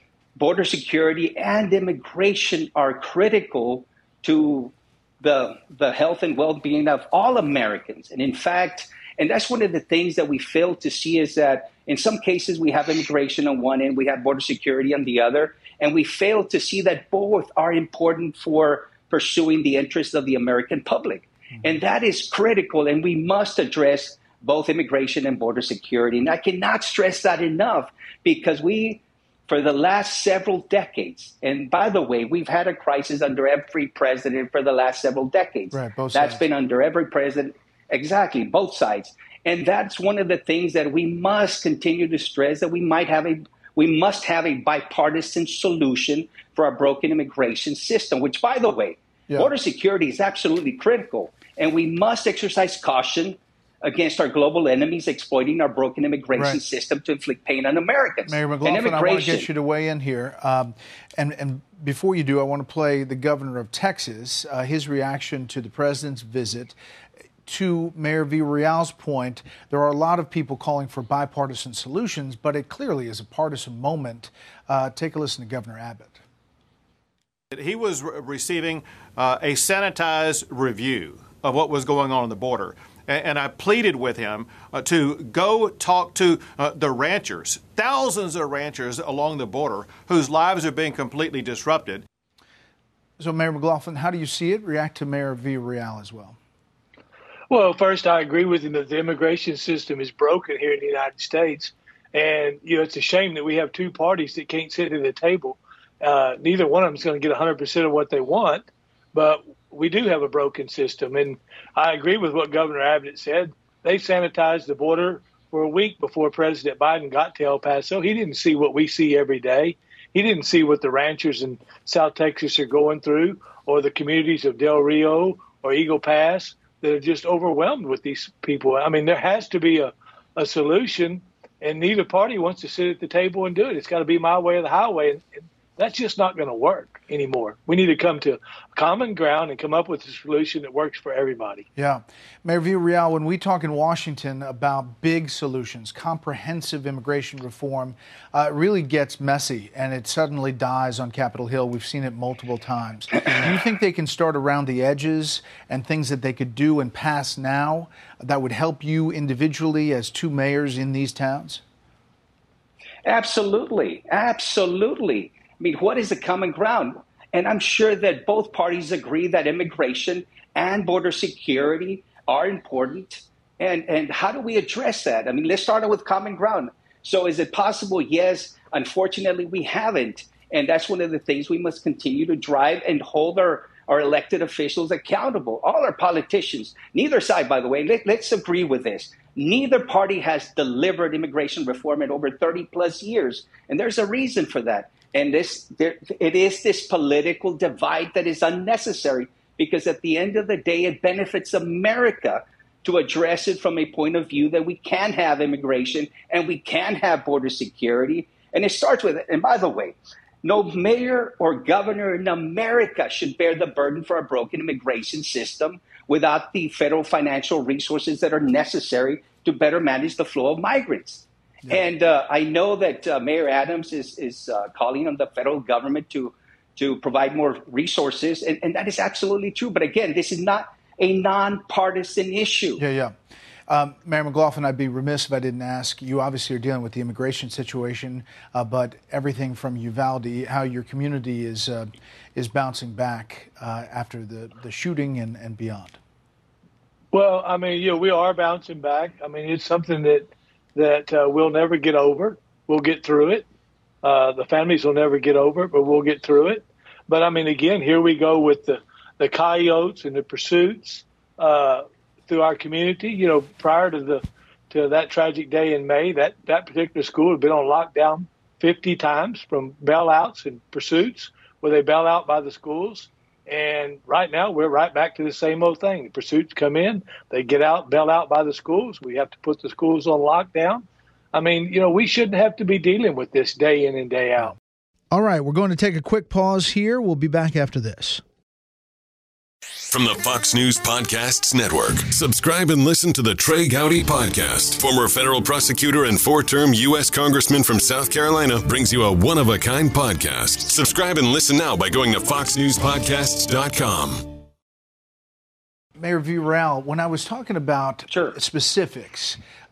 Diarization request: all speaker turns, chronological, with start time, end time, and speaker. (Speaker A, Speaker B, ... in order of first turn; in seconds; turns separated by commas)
Speaker A: 0.4-59.5, Speaker B: 35.7-36.5, Speaker B: 56.4-56.6, Speaker B: 58.3-66.8, Speaker B: 67.5-76.2, Speaker C: 77.5-92.0, Speaker B: 93.2-96.4, Speaker D: 97.5-141.7, Speaker B: 141.8-161.6, Speaker A: 163.1-232.8, Speaker B: 232.8-233.1, Speaker B: 233.7-246.0, Speaker D: 247.1-253.4, Speaker D: 254.0-284.6, Speaker B: 285.1-288.2, Speaker E: 289.9-304.2, Speaker B: 306.0-309.4, Speaker A: 308.1-308.4